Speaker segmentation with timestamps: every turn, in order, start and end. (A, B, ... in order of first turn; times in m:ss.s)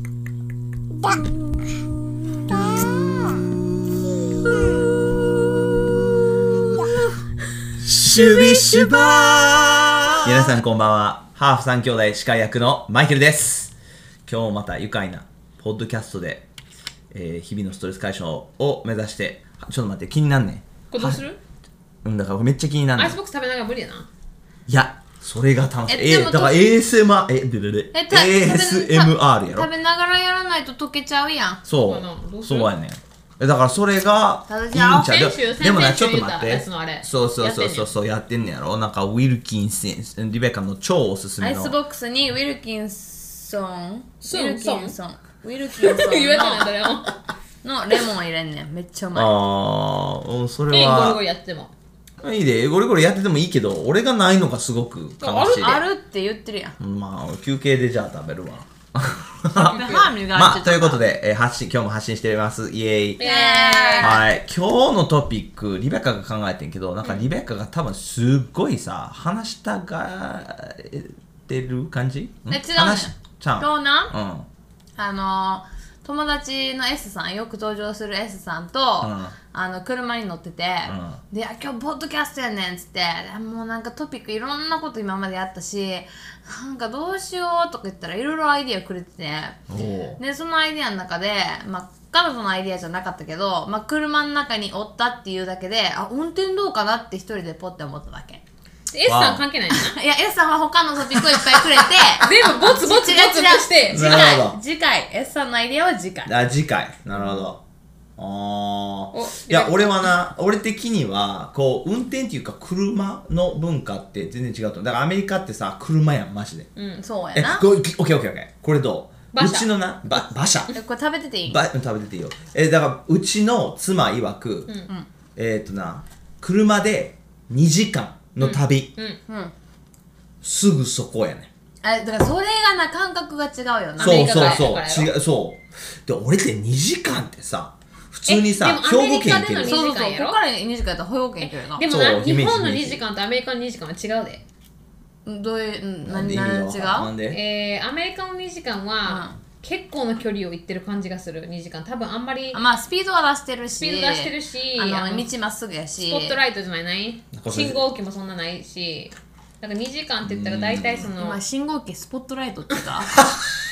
0:07.8-0:13.7 A
0:08.1-0:08.9 B
0:14.3-0:16.5 A
0:17.1-0:21.2 A
0:20.9-0:21.4 B
0:22.0-0:23.2 A
0:23.0-0:24.1 B
0:24.7-0:29.7 A
0:25.9-0:26.7 C
0:27.9-0:31.6 C
0:31.7-0:41.8 A
0:31.8-0:32.7 B
0:34.5-0:35.1 C
0:35.0-0:37.9 B
0:41.4-0:46.7 C
0:44.2-0:45.0 B
0:45.8-0:47.1 B
0:47.6-0:49.3 C
0:49.2-0:51.2 A
0:50.7-0:51.7 B
0:52.2-0:55.8 A
0:55.2-0:55.8 B
0:55.5-0:56.8 C
0:56.8-1:03.2 A
0:59.5-1:01.0 C
0:59.7-1:00.1 B
1:03.2-1:04.2 B
1:03.2-1:04.2 C
1:04.0-1:14.5 A
1:12.5-1:14.2 C
1:15.0-1:29.6 C
1:19.0-1:19.4 A
1:20.9-1:21.2 A
1:29.7-1:30.2 A
1:30.2-1:38.4 C
1:38.9-1:40.0 B
1:39.1-1:39.4 A
1:39.7-1:46.3 C
1:42.2-1:44.3 B
1:43.9-1:44.6 A
1:46.3-1:47.6 A
1:48.2-1:56.7 A
1:49.1-1:50.1 B
1:57.0-1:57.7 C
1:57.4-2:00.7 A
1:59.3-1:59.7 B
2:00.7-2:01.6 C
2:01.5-2:04.7 A
2:05.4-2:08.9 A
2:08.4-2:09.2 B
2:09.3-2:09.5 C
2:10.4-2:11.5 A
2:11.8-2:14.7 C
2:14.0-2:15.1 B
2:14.0-2:19.8 A
2:18.3-2:20.4 B
2:19.6-2:21.8 C
2:21.4-2:24.4 B
2:21.8-2:23.0 A
2:25.3-2:27.1 C
2:26.1-2:27.4 A
2:27.3-2:32.6 B
2:29.1-2:29.3 C
2:32.5-2:36.4 C
2:33.8-2:35.3 B
2:36.0-2:41.4 B
2:37.3-2:37.8 A
2:40.2-2:41.1 A
2:41.2-2:43.2 C
2:43.2-2:43.5 A